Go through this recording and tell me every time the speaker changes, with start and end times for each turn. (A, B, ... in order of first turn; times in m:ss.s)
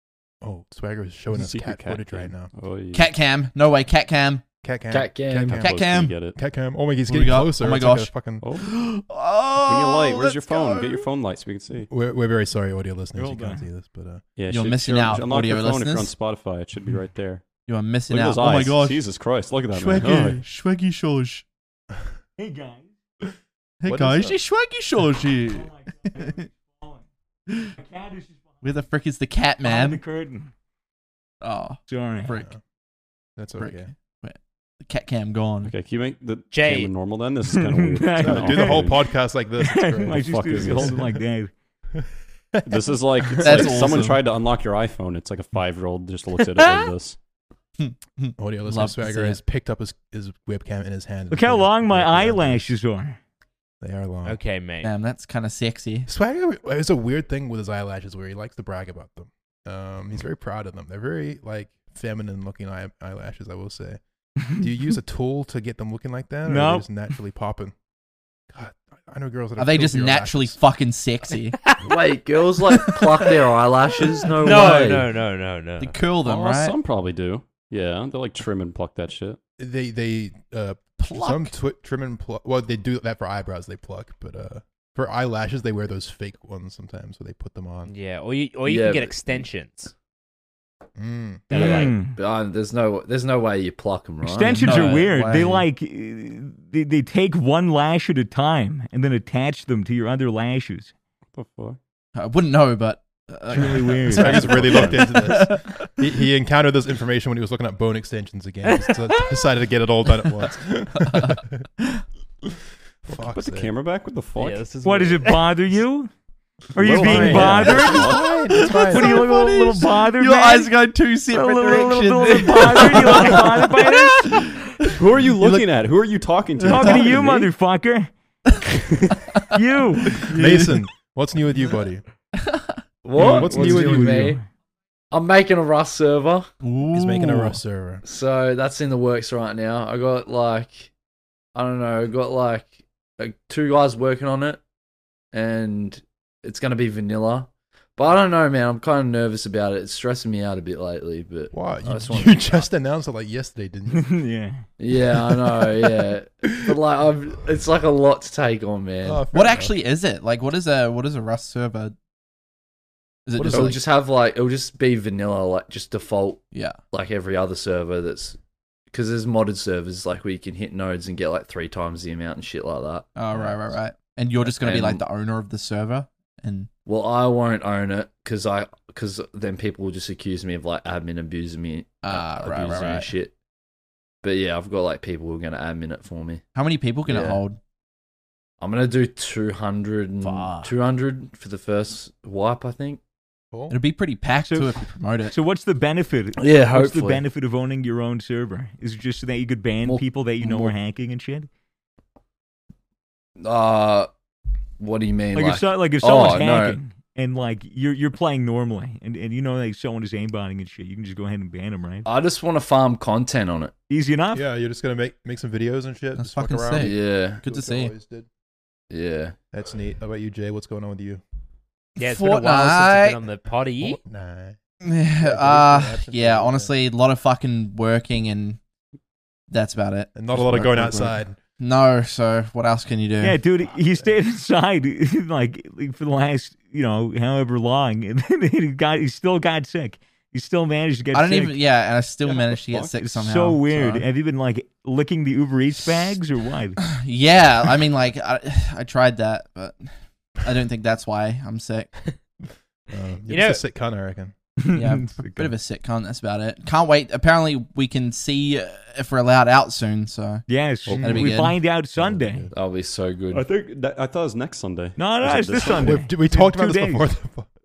0:00.4-0:02.5 A
0:01.3-0:03.1 B
0:02.9-0:04.4 C
0:04.6-0:05.7 A
0:04.9-0:05.6 D
0:05.5-0:06.4 B
0:05.5-0:06.2 C
0:06.3-0:08.4 A
0:07.1-0:11.1 C
0:08.4-0:08.7 B
0:09.6-0:11.9 B
0:11.9-0:14.2 A
0:13.1-0:13.6 E
0:14.4-0:17.4 B
0:14.5-0:16.1 C
0:17.6-0:19.0 C
0:18.1-0:20.4 B
0:19.7-0:21.4 C
0:22.4-0:22.9 E
0:23.8-0:26.4 C
0:23.8-0:24.4 A
0:25.3-0:27.0 E
0:27.8-0:28.6 E
0:28.6-0:30.0 C
0:29.6-0:30.5 E
0:31.4-0:32.5 C
0:31.9-0:32.4 E
0:33.4-0:33.9 A
0:33.6-0:35.7 C
0:35.6-0:39.0 B
0:36.5-0:36.9 F
0:37.5-0:38.9 E
0:38.2-0:41.2 A
0:39.6-0:41.5 E
0:40.1-0:41.1 B
0:41.9-0:43.8 A
0:42.6-0:47.2 B
0:43.4-0:44.2 C
0:46.6-0:46.9 F
0:47.8-0:49.4 C
0:48.4-0:52.7 A
0:51.3-0:53.2 E
0:53.8-0:54.4 A
0:54.2-0:54.9 F
0:54.8-0:56.1 C
0:56.1-1:04.0 A
1:04.5-1:07.7 A
1:06.5-1:06.8 E
1:08.5-1:10.6 A
1:09.6-1:11.6 C
1:11.8-1:15.1 D
1:12.7-1:13.2 C
1:14.4-1:16.0 F
1:14.4-1:14.9 C
1:15.8-1:16.8 C
1:16.2-1:19.4 B
1:19.6-1:27.9 A
1:21.0-1:21.5 C
1:27.9-1:29.9 F
1:28.6-1:29.4 D
1:31.0-1:31.5 A
1:31.5-1:31.9 F
1:31.5-1:35.0 D
1:31.5-1:32.2 E
1:34.2-1:40.9 E
1:34.5-1:35.6 C
1:41.3-1:41.8 B
1:42.2-1:45.9 C
1:43.5-1:45.0 E
1:44.1-1:51.6 A
1:48.6-1:49.3 F
1:51.0-1:52.0 C
1:52.4-1:53.7 A
1:53.1-1:54.7 B
1:54.4-1:55.5 F
1:54.8-1:56.1 E
1:56.7-1:58.1 E
1:56.8-1:58.3 B
1:56.8-1:59.2 A
1:57.3-2:04.9 C
1:58.6-2:04.5 E
2:04.9-2:07.5 B
2:05.4-2:05.6 C
2:06.6-2:07.1 C
2:06.6-2:08.1 E
2:09.1-2:10.3 E
2:10.1-2:10.8 C
2:10.3-2:12.0 A
2:12.4-2:13.4 C
2:13.0-2:14.4 D
2:13.2-2:14.4 A
2:13.2-2:14.4 E
2:15.1-2:16.5 D
2:16.6-2:17.6 C
2:16.9-2:18.0 A
2:18.0-2:20.9 D
2:21.5-2:24.6 D
2:25.3-2:32.6 D
2:31.5-2:34.1 A
2:33.9-2:34.6 E
2:34.8-2:39.2 D
2:35.0-2:36.1 A
2:39.0-2:39.7 A
2:39.3-2:41.9 C
2:43.3-2:43.8 C
2:43.3-2:43.8 A
2:43.5-2:48.4 D
2:46.5-2:46.8 C
2:48.9-2:53.1 D
2:53.2-2:56.7 C
2:53.3-2:53.7 A
2:54.4-2:55.0 D
2:56.8-3:03.3 D
3:02.0-3:03.1 C
3:04.2-3:06.4 D
3:06.5-3:07.6 C
3:07.1-3:07.4 D
3:08.6-3:13.0 D
3:10.2-3:10.7 C
3:13.7-3:15.4 C
3:14.5-3:21.5 E
3:16.4-3:17.2 D
3:19.8-3:20.7 D
3:23.4-3:24.1 D
3:24.8-3:26.8 D
3:25.3-3:32.1 E
3:32.0-3:33.7 D
3:33.9-3:34.4 E
3:34.3-3:38.3 A
3:36.2-3:37.9 C
3:36.8-3:37.4 D
3:38.9-3:39.4 D
3:39.5-3:41.2 A
3:42.0-3:44.0 F
3:42.0-3:43.2 C
3:43.8-3:44.6 A
3:44.8-3:48.6 C
3:45.2-3:46.7 A
3:49.5-3:53.4 C
3:50.1-3:51.4 A
3:53.2-4:01.6 E
4:01.1-4:04.0 C
4:02.2-4:02.9 B
4:02.9-4:06.8 E
4:06.9-4:11.9 C
4:12.9-4:14.3 A
4:13.3-4:13.6 F
4:14.6-4:15.5 E
4:14.7-4:21.6 C
4:20.5-4:22.5 E
4:20.9-4:21.3 A
4:21.9-4:22.5 A
4:22.5-4:23.4 D
4:23.3-4:26.1 B
4:25.0-4:27.1 E
4:25.6-4:27.5 A